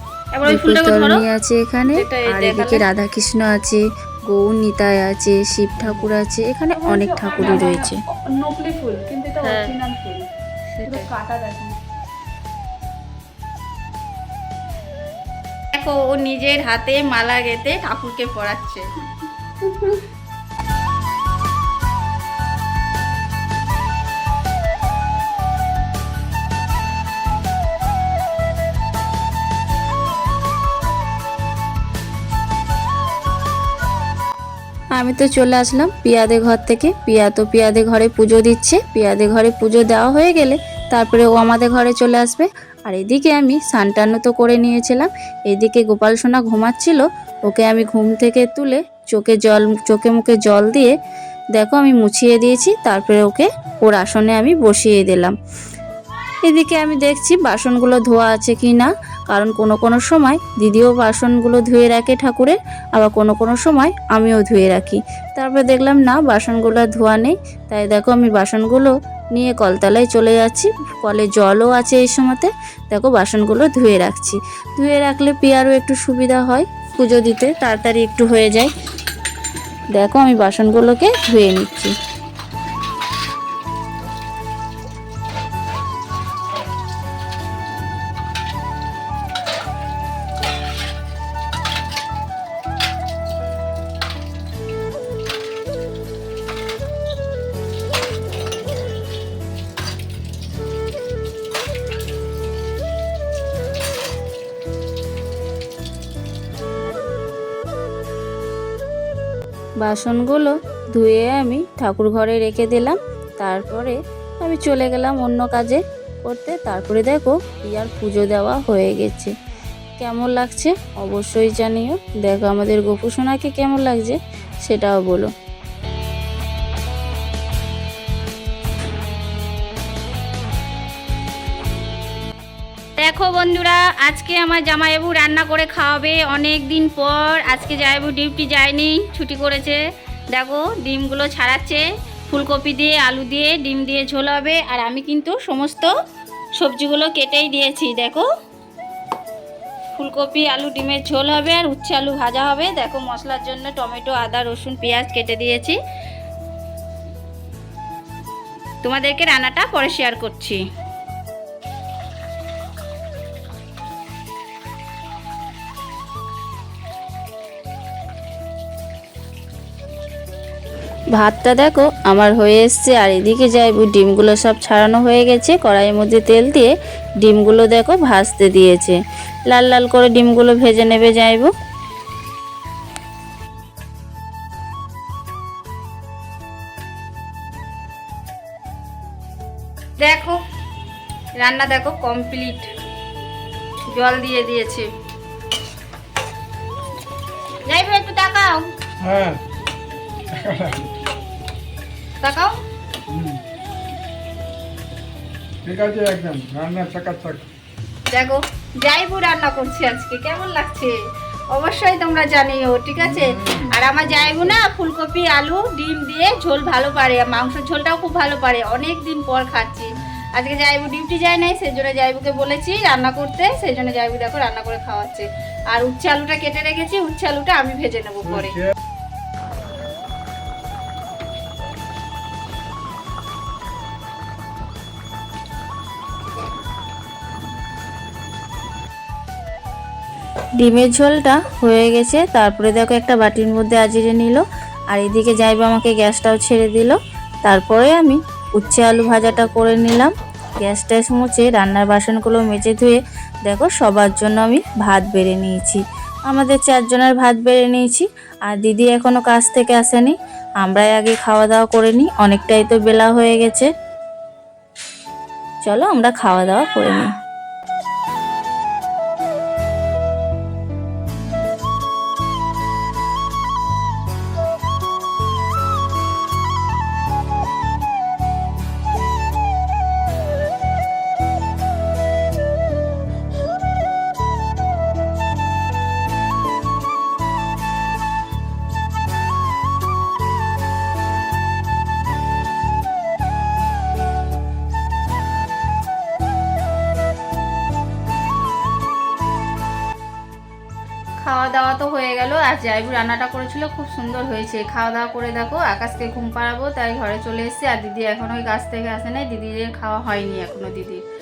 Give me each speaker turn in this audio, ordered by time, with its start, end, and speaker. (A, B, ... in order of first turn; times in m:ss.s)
0:00.4-0:01.2 A
0:00.5-0:08.0 B
0:01.9-0:02.8 A
0:06.8-0:10.2 C
0:09.5-0:09.8 A
0:10.9-0:11.7 C
0:15.8-0:18.9 A
0:35.0-0:50.9 B
0:51.6-0:55.4 B
0:56.4-1:18.7 B
1:19.9-1:21.9 B
1:49.8-1:59.3 B
2:00.0-2:05.3 B
2:13.0-2:19.8 A
2:20.3-2:24.4 A
2:23.2-2:25.9 B
2:26.6-2:27.9 B
2:27.2-2:28.3 A
2:30.0-2:33.0 A
2:33.0-2:34.8 B
2:34.2-2:35.8 A
2:38.8-2:40.6 A
2:51.1-3:01.5 B
3:10.0-3:10.4 A
3:11.4-3:12.7 A
3:13.9-3:14.9 A
3:17.7-3:18.7 A
3:19.0-3:19.4 D
3:20.3-3:20.9 D
3:22.2-3:22.5 A
3:23.1-3:23.4 D
3:25.6-3:27.5 D
3:28.1-3:31.0 A
3:31.5-3:48.6 A
3:33.0-3:34.6 D
4:00.6-4:23.7 B
4:25.6-4:27.1 B
5:01.2-5:11.0 A